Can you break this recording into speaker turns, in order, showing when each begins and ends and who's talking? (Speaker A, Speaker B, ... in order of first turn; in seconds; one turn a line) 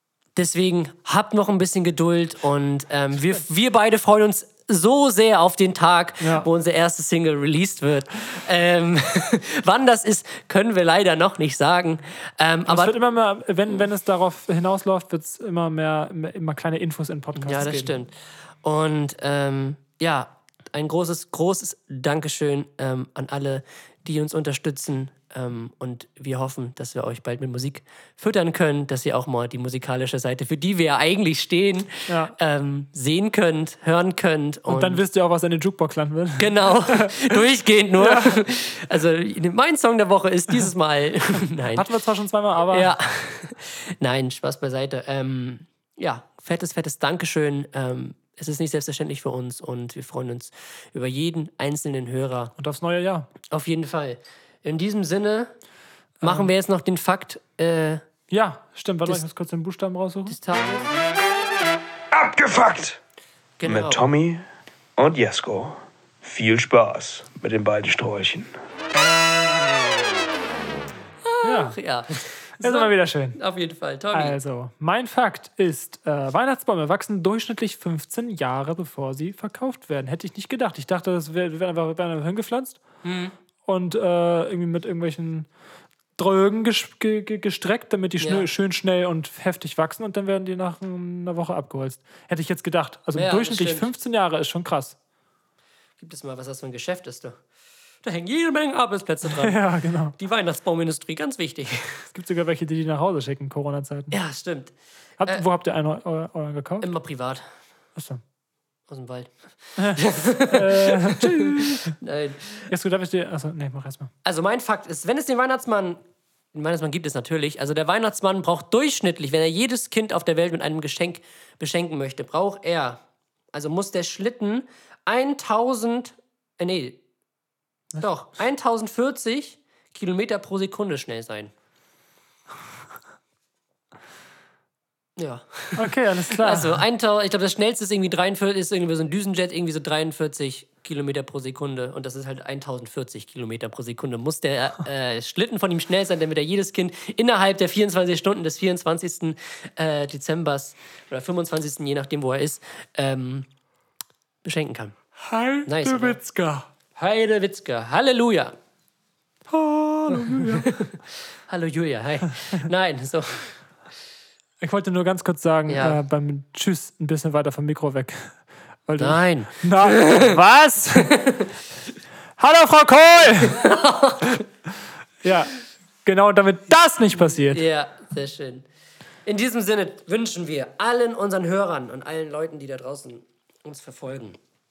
Speaker A: 0.3-12.9
Speaker B: 6.2-6.5
Speaker B: 12.7-18.0
Speaker A: 17.4-35.0
Speaker B: 32.1-32.4
Speaker B: 34.7-37.4
Speaker A: 36.4-41.9
Speaker B: 38.0-38.4
Speaker B: 41.7-42.9
Speaker A: 42.7-52.5
Speaker B: 52.6-53.3
Speaker A: 53.5-55.5
Speaker B: 56.2-56.5
Speaker A: 56.2-58.0
Speaker B: 58.3-60.4
Speaker A: 60.3-60.9
Speaker C: 62.1-63.0
Speaker A: 63.6-64.0
Speaker C: 63.6-64.5
Speaker C: 65.0-68.6
Speaker A: 71.2-74.4
Speaker B: 71.4-71.8
Speaker B: 72.6-73.4
Speaker B: 74.1-82.8
Speaker A: 83.0-83.3
Speaker B: 83.7-85.5
Speaker B: 86.2-95.0
Speaker A: 88.2-88.5
Speaker A: 93.1-93.9
Speaker A: 96.0-97.4
Speaker A: 98.0-99.6
Speaker B: 99.2-100.2
Speaker A: 100.1-102.1
Speaker B: 102.1-104.2
Speaker A: 104.1-105.5
Speaker B: 105.2-106.9
Speaker A: 106.8-107.5
Speaker B: 108.0-108.2
Speaker A: 108.9-112.7
Speaker B: 109.8-112.0
Speaker B: 112.7-114.1
Speaker A: 114.2-116.0
Speaker A: 116.5-123.0
Speaker A: 123.5-127.0
Speaker A: 128.0-131.5
Speaker A: 135.2-153.5
Speaker B: 135.8-136.8
Speaker A: 154.4-155.0
Speaker B: 155.2-156.7
Speaker A: 155.7-156.2
Speaker A: 156.9-158.6
Speaker B: 159.5-160.7
Speaker A: 160.1-163.6
Speaker B: 164.6-171.1
Speaker A: 165.7-166.0
Speaker A: 169.0-170.4
Speaker A: 170.9-171.5
Speaker B: 172.4-173.7
Speaker A: 173.4-174.4
Speaker B: 175.2-175.5
Speaker B: 176.0-177.6
Speaker A: 177.5-178.7
Speaker A: 179.2-184.4